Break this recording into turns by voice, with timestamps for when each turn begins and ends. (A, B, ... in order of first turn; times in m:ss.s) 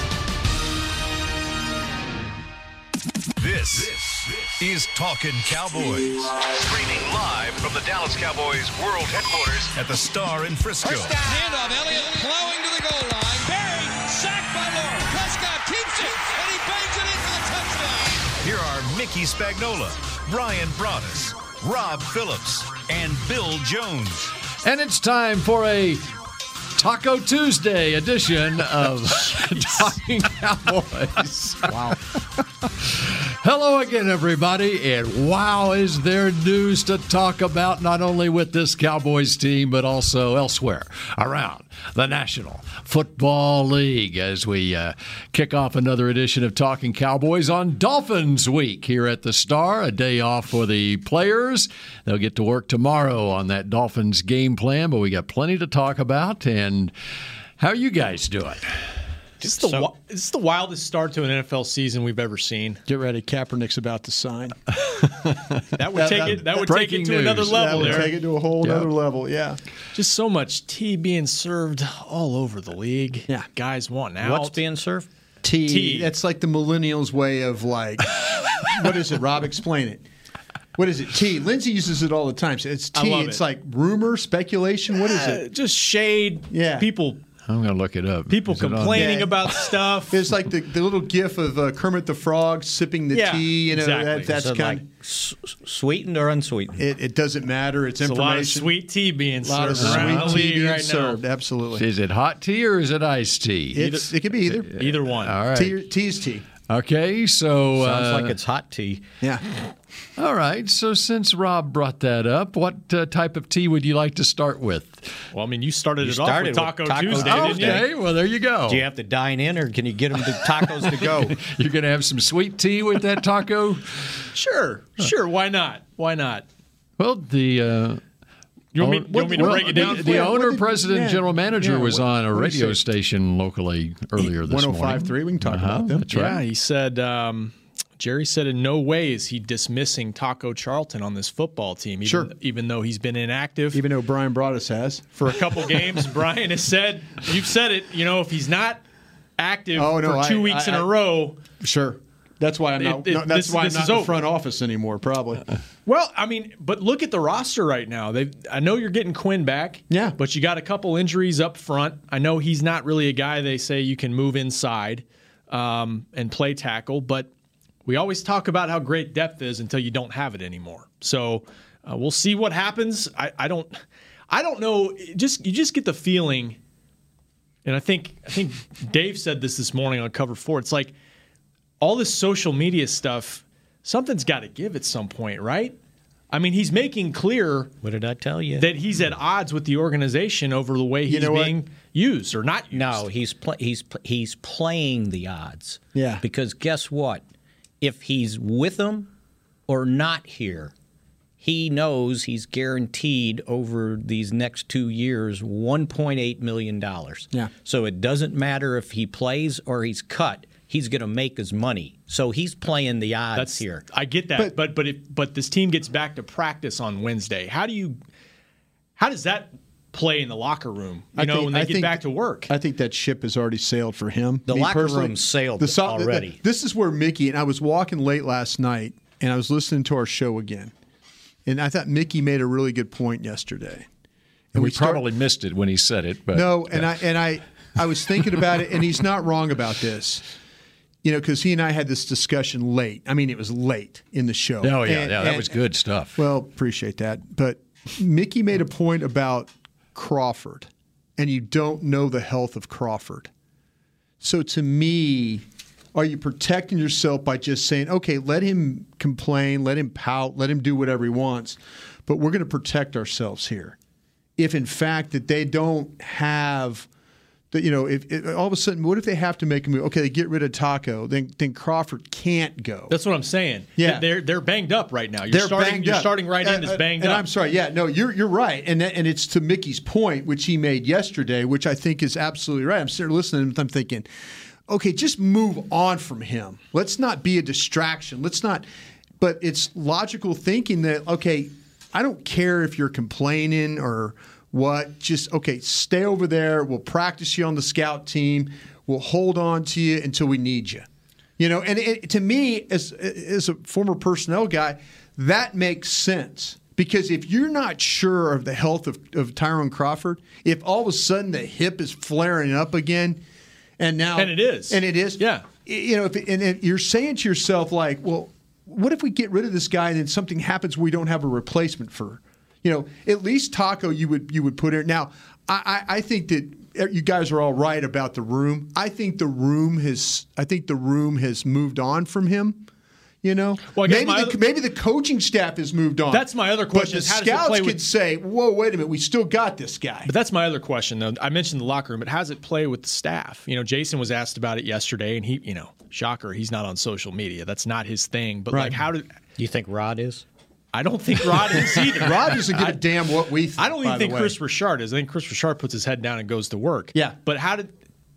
0:03.4-0:11.2 A
0:11.0-0:18.2 B
0:18.4-0:24.3 A
0:24.6-0:26.0 C
0:26.8-0:32.0 C
0:32.9-0:56.9 C
0:57.6-0:58.6 C
0:59.4-0:59.9 D
0:59.4-1:02.8 E
1:02.9-1:04.6 F
1:05.0-1:08.9 C
1:05.8-1:08.1 E
1:05.9-1:06.7 F
1:07.4-1:09.6 F
1:09.9-1:14.6 E
1:14.2-1:15.1 D
1:15.4-1:20.1 F
1:15.7-1:16.1 E
1:20.8-1:25.4 F
1:23.0-1:23.4 E
1:25.0-1:27.2 E
1:26.5-1:26.9 F
1:27.5-1:29.3 C
1:28.3-1:30.2 E
1:28.9-1:29.3 F
1:30.1-1:34.9 F
1:33.1-1:34.3 E
1:34.3-1:36.8 D
1:36.8-1:38.7 F
1:38.0-1:41.2 E
1:39.4-1:41.8 F
1:39.7-1:40.4 C
1:41.8-1:43.9 C
1:43.7-1:44.7 F
1:44.7-1:45.8 C
1:44.8-1:45.4 E
1:45.5-1:46.5 F
1:46.7-1:48.4 C
1:47.8-1:49.0 D
1:50.2-1:55.1 C
1:55.3-1:57.8 E
1:56.0-1:57.9 D
1:57.1-1:58.9 C
1:58.7-2:01.4 D
2:00.6-2:04.2 C
2:04.3-2:06.5 E
2:07.0-2:08.0 C
2:08.7-2:10.4 E
2:08.8-2:16.4 C
2:09.1-2:12.8 F
2:14.2-2:16.1 F
2:16.1-2:23.8 E
2:22.0-2:22.3 F
2:23.7-2:25.8 F
2:25.2-2:28.8 E
2:29.4-2:31.4 E
2:29.8-2:30.9 F
2:31.6-2:35.4 F
2:32.8-2:34.2 E
2:35.9-2:47.3 E
2:39.9-2:40.2 F
2:47.9-2:53.8 E
2:54.3-2:56.6 E
2:57.6-3:00.9 E
3:01.8-3:05.8 E
3:06.3-3:07.7 E
3:07.8-3:08.7 D
3:08.6-3:13.1 E
3:11.1-3:11.6 F
3:12.7-3:17.2 D
3:15.9-3:16.2 F
3:17.8-3:19.1 D
3:19.7-3:20.7 D
3:21.4-3:33.8 D
3:33.4-3:38.0 E
3:39.0-3:42.5 E
3:41.2-3:50.7 F
3:44.5-3:46.4 D
3:51.5-3:53.9 F
3:54.5-3:55.0 F
3:54.6-3:56.9 C
3:56.3-4:00.2 F
4:01.0-4:05.6 F
4:04.6-4:06.2 C
4:06.2-4:13.3 F
4:14.2-4:23.8 F
4:24.4-4:26.9 F
4:27.5-4:33.0 F
4:32.9-4:37.3 E
4:33.8-4:34.1 F
4:35.3-4:44.1 F
4:44.7-4:48.6 F
4:49.2-5:00.9 F
5:01.4-5:13.2 F
5:13.8-5:32.7 F
5:14.2-5:15.4 E
5:33.2-5:40.1 F
5:33.7-5:34.4 E
5:36.1-5:37.8 E
5:40.0-5:49.1 E
5:48.5-5:48.8 F
5:49.4-5:50.2 D
5:50.7-5:52.8 E
5:51.8-5:54.4 F
5:53.6-5:57.7 E